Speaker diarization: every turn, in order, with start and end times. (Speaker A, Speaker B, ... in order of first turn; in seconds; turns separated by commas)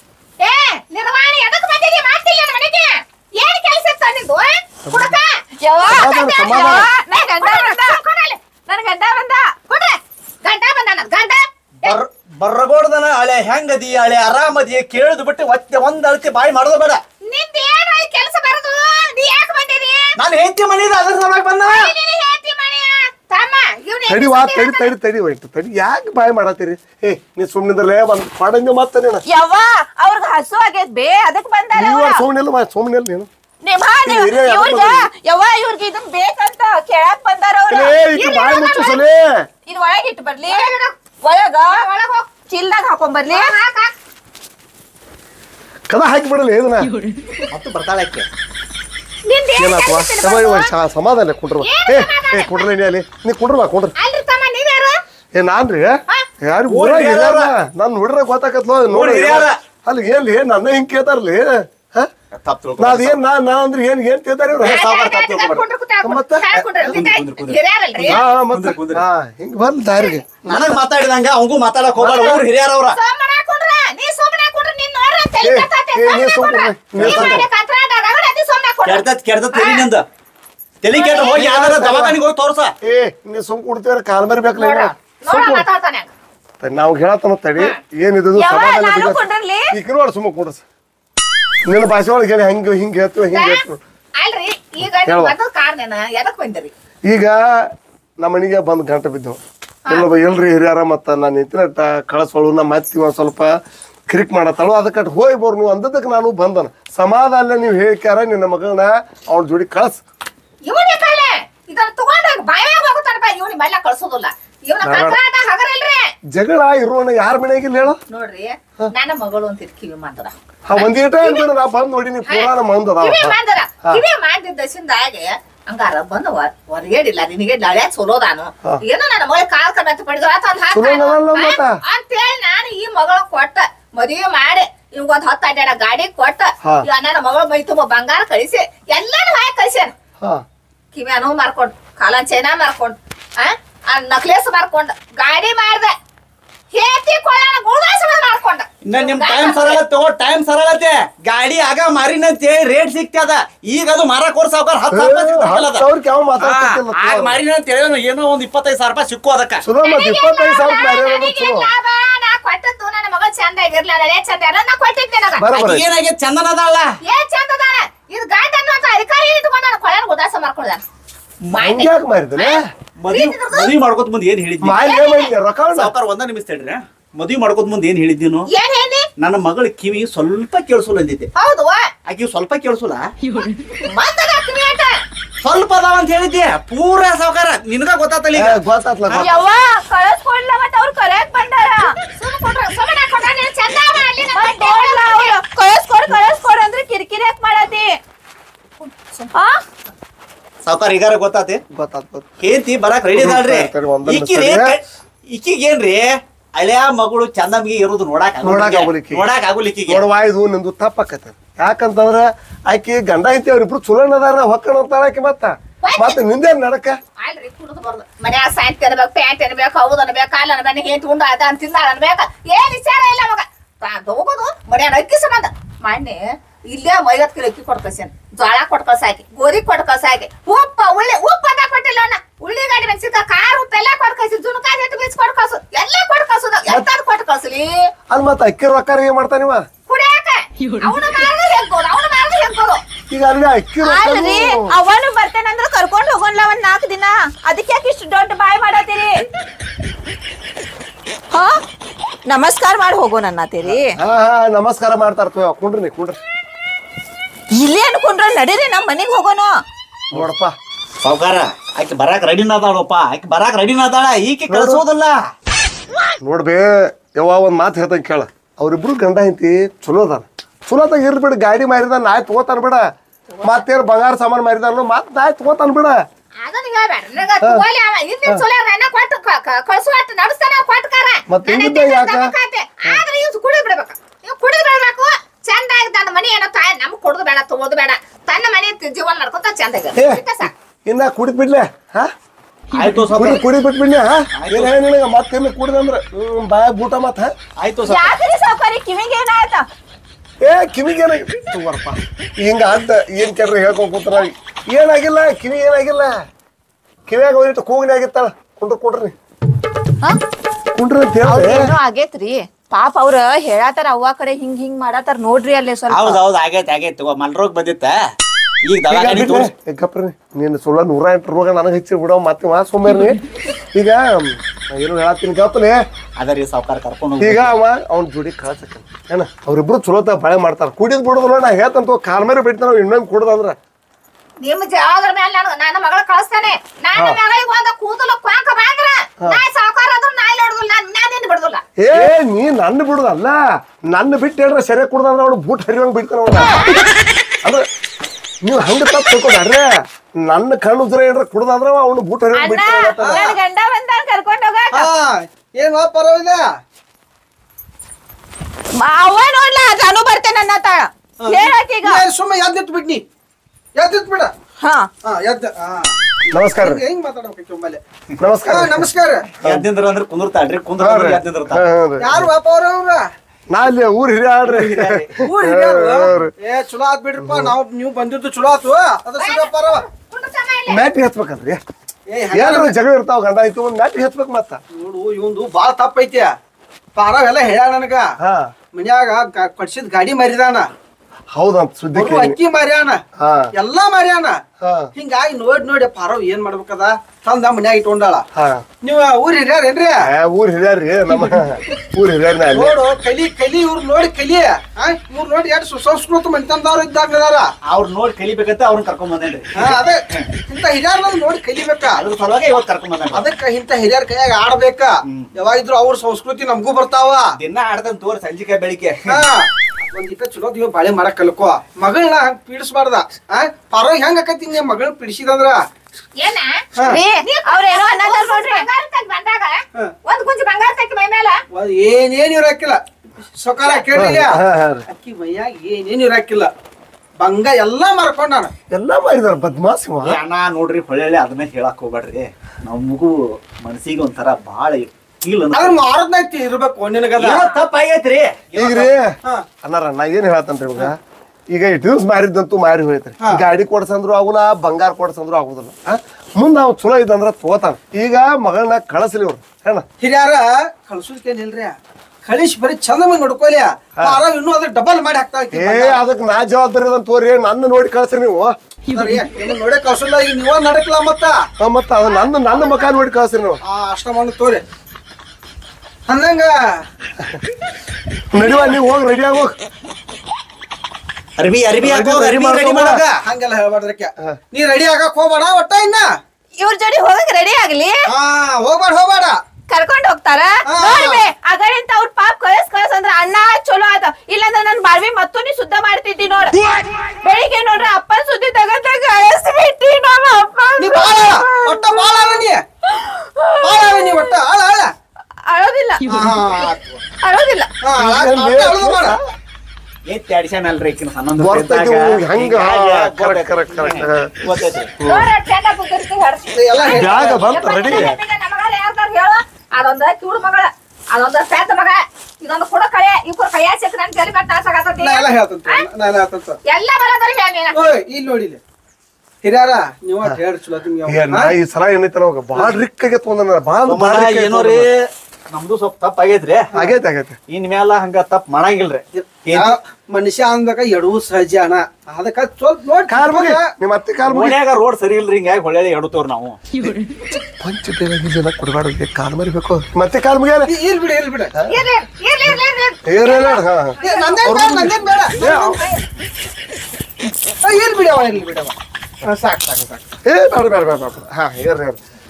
Speaker A: 0.4-8.5, Speaker B: 4.8-5.1, Speaker C: 5.6-8.0, Speaker B: 5.9-6.9, Speaker C: 8.7-9.5, Speaker A: 9.7-11.9, Speaker D: 11.8-17.0, Speaker A: 17.2-20.2, Speaker D: 20.2-21.9, Speaker A: 21.6-24.9, Speaker B: 24.1-29.2, Speaker C: 29.3-32.2, Speaker B: 31.7-33.3, Speaker C: 33.6-38.0, Speaker B: 34.0-35.1, Speaker B: 37.7-39.5, Speaker A: 38.1-39.0, Speaker C: 39.7-40.7, Speaker A: 40.5-40.9, Speaker C: 41.2-41.8, Speaker A: 41.6-42.4, Speaker C: 42.4-43.5, Speaker A: 43.3-43.9, Speaker B: 45.9-46.9, Speaker D: 47.5-48.3, Speaker A: 49.2-50.7, Speaker B: 49.6-53.9, Speaker A: 51.6-52.7, Speaker A: 54.0-55.0, Speaker B: 55.3-62.1, Speaker D: 56.7-57.5, Speaker D: 58.9-59.6, Speaker D: 62.3-63.2, Speaker B: 62.8-64.8, Speaker D: 64.6-65.6, Speaker A: 64.6-68.2, Speaker B: 66.0-66.9, Speaker D: 66.5-69.0, Speaker B: 68.1-70.5, Speaker D: 70.4-73.0, Speaker B: 71.9-72.4, Speaker A: 72.9-79.9, Speaker B: 75.4-77.5, Speaker D: 77.0-77.4, Speaker D: 78.8-80.0, Speaker D: 80.8-82.7, Speaker A: 80.9-81.5, Speaker B: 81.3-82.2, Speaker B: 82.8-85.6, Speaker A: 84.6-86.1, Speaker B: 86.6-90.6, Speaker C: 88.3-89.7, Speaker B: 91.6-93.8, Speaker A: 93.3-93.6, Speaker A: 94.2-96.7, Speaker B: 95.0-95.3, Speaker B: 97.0-97.7, Speaker B: 98.2-103.5, Speaker B: 104.1-110.0, Speaker A: 110.6-116.1, Speaker B: 114.8-115.2, Speaker B: 116.3-118.0, Speaker A: 118.1-121.5, Speaker B: 120.7-124.0, Speaker A: 122.2-139.9, Speaker B: 130.7-131.8, Speaker A: 140.9-145.9, Speaker A: 146.7-149.8, Speaker D: 148.8-155.8, Speaker B: 154.9-157.4, Speaker D: 156.4-159.6, Speaker B: 159.6-161.7, Speaker A: 159.8-165.5, Speaker B: 165.4-165.8, Speaker D: 165.5-166.9, Speaker A: 167.0-170.8, Speaker A: 171.5-173.8, Speaker B: 171.6-172.6, Speaker D: 173.0-174.9, Speaker B: 174.6-175.9, Speaker A: 174.8-175.3, Speaker D: 175.7-178.5, Speaker A: 178.5-179.1, Speaker D: 179.2-181.3, Speaker A: 181.3-181.9, Speaker D: 182.1-183.0, Speaker A: 183.8-184.9, Speaker D: 185.4-189.3, Speaker B: 188.3-189.4, Speaker C: 189.1-191.9, Speaker A: 192.1-195.3, Speaker C: 194.3-197.9, Speaker A: 198.8-199.3, Speaker C: 199.3-199.6, Speaker D: 200.6-201.6, Speaker B: 201.7-202.3, Speaker D: 202.4-206.0, Speaker B: 203.1-204.8, Speaker D: 206.6-210.0, Speaker B: 208.4-209.2, Speaker B: 209.9-217.0, Speaker A: 215.8-216.2, Speaker A: 217.2-237.9, Speaker B: 238.1-239.6, Speaker A: 239.9-242.8, Speaker B: 243.1-244.7, Speaker C: 243.8-249.1, Speaker C: 252.3-253.9, Speaker B: 253.6-256.2, Speaker C: 257.5-259.5, Speaker B: 260.1-260.5, Speaker D: 261.0-265.2, Speaker B: 264.5-264.8, Speaker B: 266.2-272.8, Speaker B: 273.4-276.0, Speaker A: 276.4-290.5, Speaker B: 277.4-277.6, Speaker B: 281.3-282.3, Speaker B: 289.9-290.2, Speaker B: 290.8-292.1, Speaker D: 292.7-293.4, Speaker B: 293.1-297.3, Speaker D: 294.4-294.7, Speaker D: 297.6-298.1, Speaker C: 297.9-299.6, Speaker B: 300.4-306.1, Speaker B: 307.1-309.1, Speaker B: 310.7-311.7, Speaker C: 311.2-316.2, Speaker D: 315.9-318.0, Speaker D: 318.6-319.5, Speaker B: 318.9-323.2, Speaker B: 323.7-325.8, Speaker D: 326.2-327.5, Speaker B: 327.2-333.6, Speaker A: 334.4-341.6, Speaker B: 341.8-343.4, Speaker B: 343.9-346.7, Speaker B: 348.4-349.7, Speaker B: 350.2-353.3, Speaker C: 352.3-354.9, Speaker E: 353.0-353.3, Speaker E: 354.7-356.4, Speaker C: 358.8-362.0, Speaker E: 361.2-363.0, Speaker E: 363.8-364.3, Speaker C: 364.6-364.9, Speaker E: 365.0-367.8, Speaker B: 366.3-366.8, Speaker B: 368.2-368.9, Speaker E: 368.4-369.3, Speaker B: 369.4-369.7, Speaker D: 369.4-371.6, Speaker B: 370.8-372.3, Speaker E: 372.0-373.1, Speaker B: 373.5-376.3, Speaker D: 374.5-375.0, Speaker E: 375.1-379.8, Speaker B: 377.2-377.5, Speaker A: 379.2-380.9, Speaker B: 380.7-381.6, Speaker E: 382.1-382.7, Speaker B: 382.3-384.6, Speaker E: 384.7-386.3, Speaker E: 386.9-388.1, Speaker B: 388.2-388.5, Speaker E: 388.7-390.7, Speaker B: 391.3-392.4, Speaker E: 391.9-393.0, Speaker B: 393.2-393.5, Speaker E: 393.5-394.4, Speaker B: 394.6-394.9, Speaker E: 394.9-398.2, Speaker B: 398.3-398.6, Speaker E: 398.8-400.0, Speaker B: 400.1-402.8, Speaker E: 402.5-407.5, Speaker D: 407.6-410.2, Speaker E: 409.5-412.0, Speaker D: 411.9-413.3, Speaker E: 413.1-417.2, Speaker D: 415.1-415.4, Speaker D: 417.4-419.2, Speaker E: 419.1-425.6, Speaker A: 426.1-431.4, Speaker E: 426.8-427.0, Speaker C: 426.9-428.6, Speaker E: 431.5-432.8, Speaker E: 433.3-436.5, Speaker A: 433.6-433.9, Speaker B: 433.9-434.9, Speaker E: 437.2-438.5, Speaker B: 438.7-440.2, Speaker D: 440.0-445.8, Speaker E: 445.5-447.5, Speaker D: 447.2-448.9, Speaker B: 448.6-450.9, Speaker B: 451.5-459.8, Speaker E: 460.0-466.0, Speaker B: 465.5-468.5, Speaker E: 468.9-471.4, Speaker B: 471.6-473.6, Speaker E: 473.6-474.6, Speaker E: 476.1-476.8, Speaker B: 478.3-479.5, Speaker E: 478.4-478.7, Speaker D: 481.4-483.2, Speaker B: 481.8-483.0, Speaker E: 483.2-486.1, Speaker C: 486.6-488.1, Speaker E: 488.1-489.4, Speaker C: 489.7-504.3, Speaker E: 490.7-491.3, Speaker E: 500.8-502.6, Speaker E: 503.6-504.9, Speaker C: 505.5-506.2, Speaker E: 506.1-506.7, Speaker D: 506.3-507.0, Speaker C: 507.2-507.7, Speaker E: 507.8-509.2, Speaker B: 507.9-509.2, Speaker D: 510.1-514.9, Speaker B: 511.4-515.2, Speaker A: 515.0-525.9, Speaker E: 516.5-517.4, Speaker B: 516.8-518.1, Speaker D: 517.8-518.2, Speaker E: 525.0-526.6, Speaker A: 526.6-527.8, Speaker E: 527.7-528.6, Speaker E: 529.4-531.5, Speaker B: 531.0-534.9, Speaker E: 532.5-532.8, Speaker D: 533.9-536.6, Speaker B: 536.7-537.4, Speaker D: 537.5-539.7, Speaker E: 539.1-543.7, Speaker B: 543.1-544.6, Speaker D: 544.2-546.9, Speaker B: 547.6-550.7, Speaker E: 550.6-551.5, Speaker A: 551.7-554.9, Speaker B: 553.0-553.9, Speaker E: 554.0-555.6, Speaker B: 554.6-555.8, Speaker A: 555.4-556.0, Speaker E: 557.6-560.1, Speaker B: 560.2-562.0